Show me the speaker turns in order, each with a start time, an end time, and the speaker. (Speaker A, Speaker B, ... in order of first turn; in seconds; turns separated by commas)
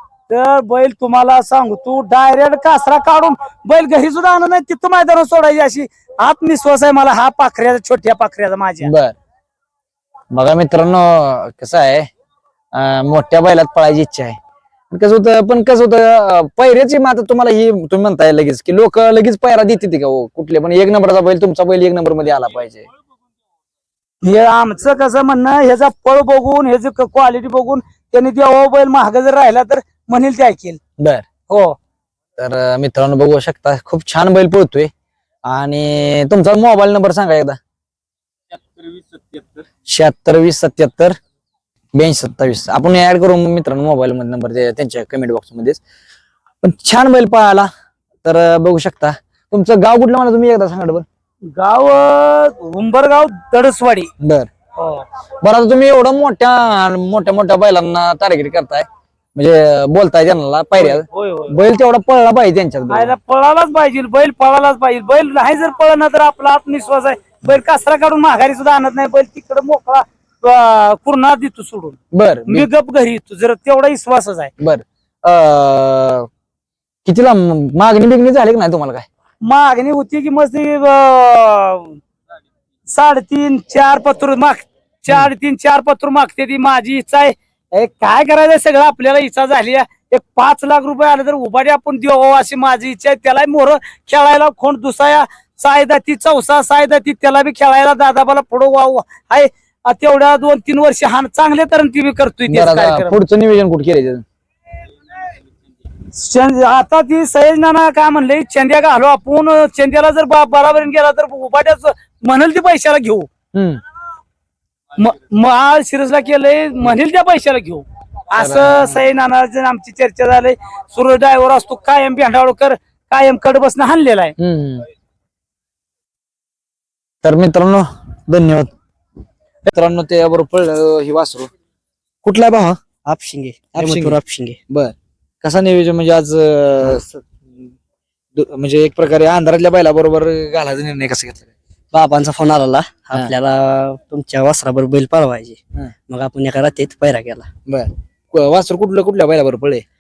Speaker A: 0.3-8.9, Speaker B: 8.8-9.2, Speaker B: 10.3-12.1, Speaker B: 12.7-14.4, Speaker B: 14.9-22.9, Speaker A: 24.2-30.8, Speaker B: 31.0-31.3, Speaker A: 31.5-31.8, Speaker B: 32.4-34.9, Speaker B: 35.5-37.6, Speaker B: 39.9-41.2, Speaker B: 41.9-45.8, Speaker B: 46.6-47.7, Speaker B: 48.2-51.0, Speaker A: 51.5-54.1, Speaker B: 54.2-54.5, Speaker A: 54.8-55.0, Speaker B: 55.4-63.1, Speaker A: 60.8-61.5, Speaker A: 62.9-74.5, Speaker B: 72.1-72.7, Speaker B: 74.6-76.3, Speaker B: 77.0-79.1, Speaker A: 79.5-82.0, Speaker A: 82.9-103.2, Speaker B: 102.5-104.2, Speaker A: 106.1-113.3, Speaker B: 113.5-113.8, Speaker A: 115.0-124.3, Speaker B: 118.4-119.0, Speaker B: 124.4-124.8, Speaker B: 127.2-128.7, Speaker B: 129.6-131.5, Speaker B: 132.2-132.8, Speaker C: 133.1-134.6, Speaker B: 133.8-134.2, Speaker B: 134.7-137.1, Speaker B: 138.3-141.5, Speaker C: 141.9-147.5, Speaker B: 147.7-149.8